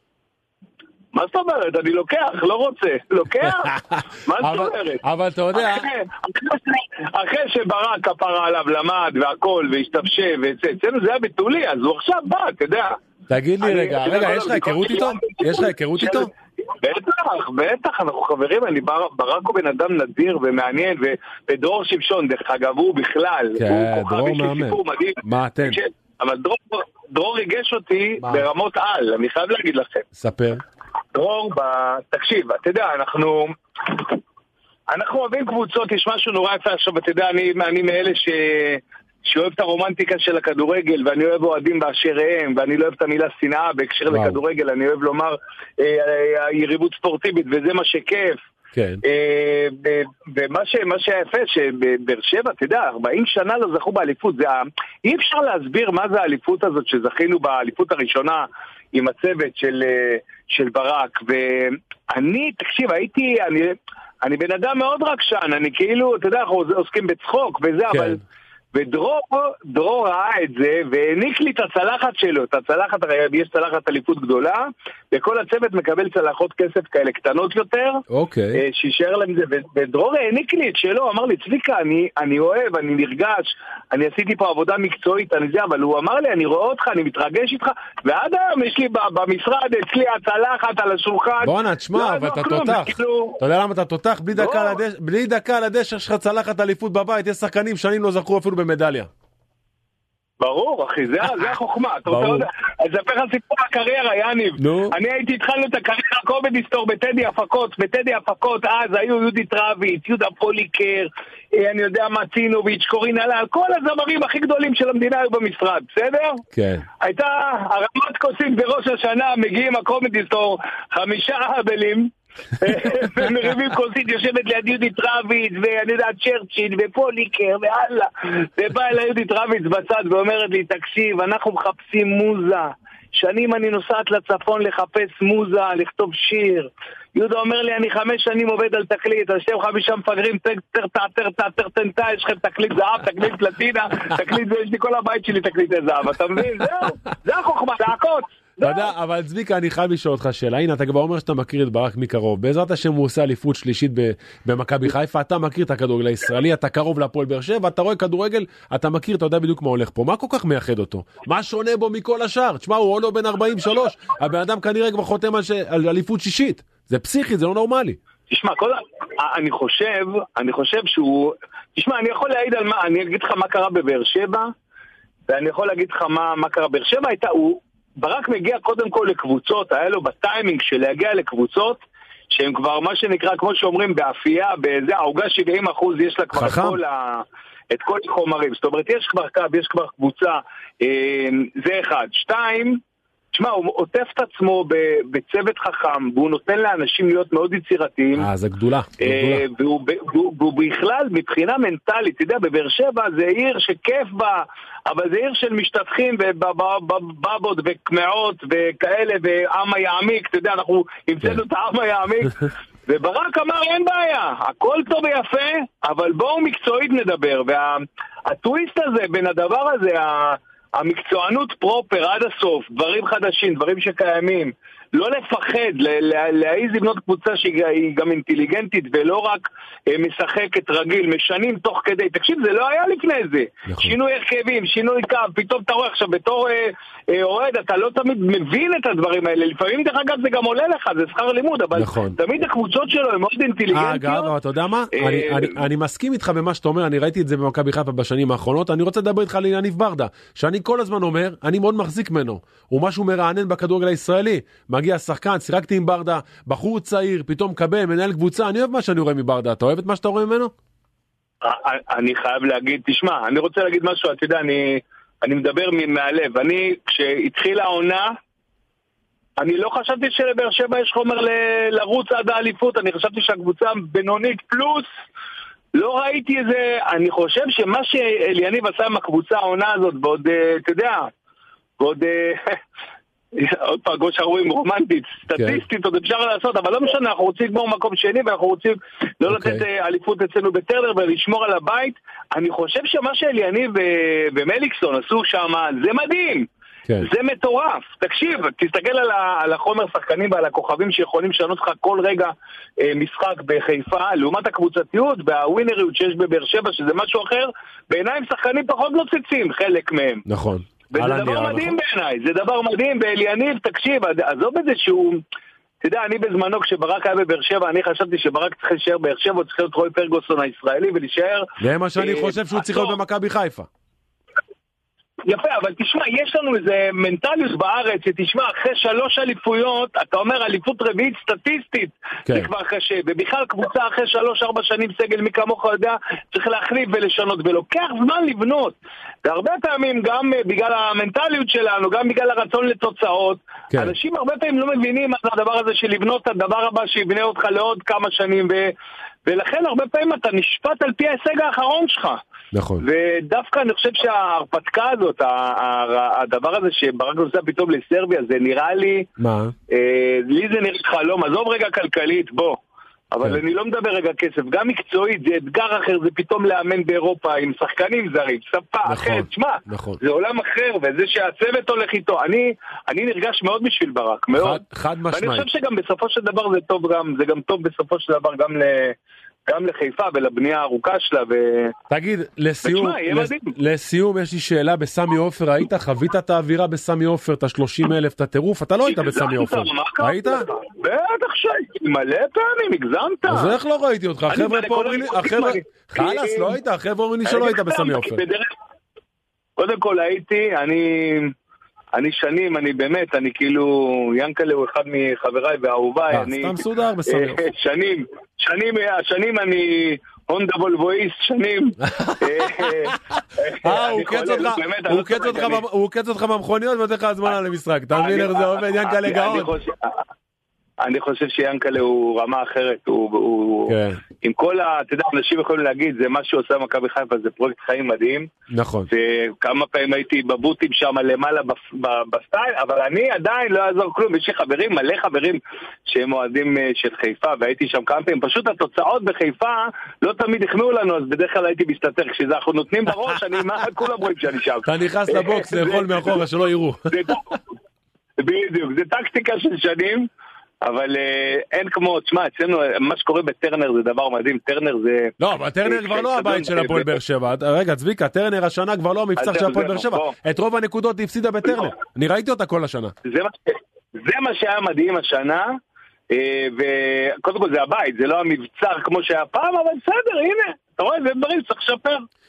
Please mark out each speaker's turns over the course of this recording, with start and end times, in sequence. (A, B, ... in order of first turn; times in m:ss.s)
0:01.1-0:05.0 A
0:03.9-0:05.9 B
0:05.5-0:12.9 A
0:13.3-0:16.3 B
0:13.6-0:30.0 A
0:23.6-0:25.8 B
0:28.2-0:28.5 B
0:30.2-0:30.6 B
0:31.1-0:34.2 A
0:34.9-0:48.4 A
0:44.1-0:44.4 B
0:48.7-0:49.0 B
0:49.0-1:08.2 A
1:07.9-1:08.2 B
1:08.7-1:18.0 A
1:18.1-1:18.6 B
1:18.5-1:33.4 A
1:31.4-1:39.1 B
1:34.3-1:34.8 A
1:40.4-1:56.4 A
1:42.0-1:42.5 B
1:44.6-1:45.0 B
1:56.5-1:56.8 B
1:57.0-2:28.9 A
2:28.6-2:48.0 B
2:48.3-2:54.5 A
2:55.3-3:12.8 A
3:06.3-3:06.8 B
3:13.3-3:18.3 A
3:18.2-3:19.4 B
3:19.0-4:04.3 A
3:53.7-3:54.0 B
4:01.8-4:02.2 B
4:03.7-4:20.5 B
4:04.9-4:05.6 A
4:21.4-4:28.1 A
4:29.4-4:34.8 A
4:35.7-4:41.1 A
4:41.8-4:42.6 A
4:43.3-4:56.4 A
4:45.3-4:45.6 B
4:49.3-4:49.6 B
4:57.0-5:10.2 A
5:10.3-5:11.8 B
5:10.9-5:15.2 A
5:15.8-5:23.0 A
5:21.6-5:23.7 B
5:25.2-5:48.7 A
5:49.2-5:52.2 A
5:52.5-5:52.8 B
5:52.8-5:59.1 A
5:59.2-5:59.5 B
5:59.7-6:02.6 A
6:03.1-6:21.7 A
6:08.8-6:10.0 B
6:14.3-6:15.5 B
6:21.9-6:30.4 B
6:22.6-6:23.5 A
6:28.8-6:33.5 A
6:33.2-6:38.2 B
6:34.3-6:36.6 A
6:37.2-6:38.5 A
6:39.6-6:41.3 A
6:41.9-6:55.6 A
6:46.1-6:47.5 B
6:51.9-6:53.0 B
6:53.5-6:59.5 B
6:57.9-7:00.0 A
7:00.8-7:08.3 A
7:03.7-7:04.0 B
7:08.5-7:08.9 B
7:08.9-7:26.2 A
7:24.6-7:26.9 B
7:26.9-7:27.4 A
7:28.2-7:30.1 A
7:30.6-7:37.0 A
7:35.2-7:42.9 B
7:39.2-7:40.1 A
7:43.0-7:45.5 A
7:46.1-7:52.0 A